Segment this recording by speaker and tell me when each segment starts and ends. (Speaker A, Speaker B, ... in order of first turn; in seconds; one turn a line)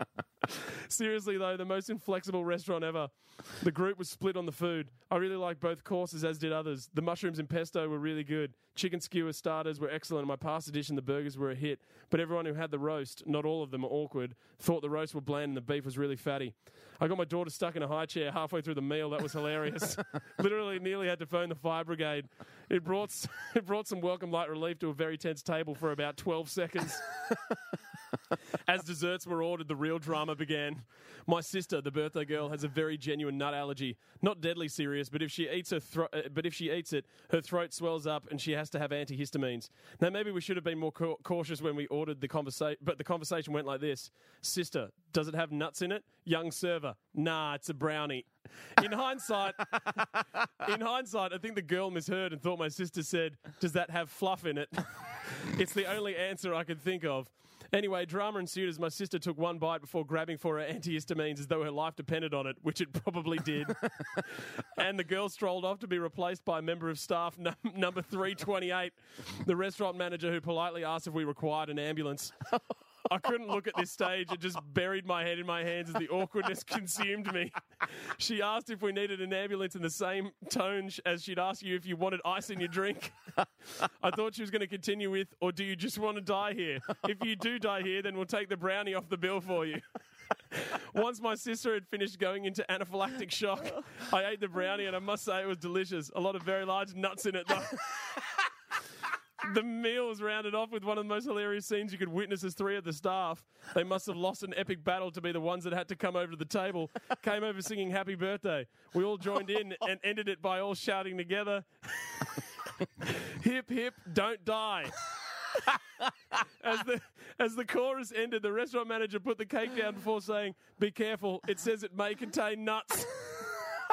Speaker A: 0.5-27.1
Speaker A: 28.6-72.5
Speaker A: 73.0-89.8
Speaker A: 90.5-98.4
Speaker A: 99.4-115.0
Speaker A: 115.5-115.8
Speaker A: 116.3-123.6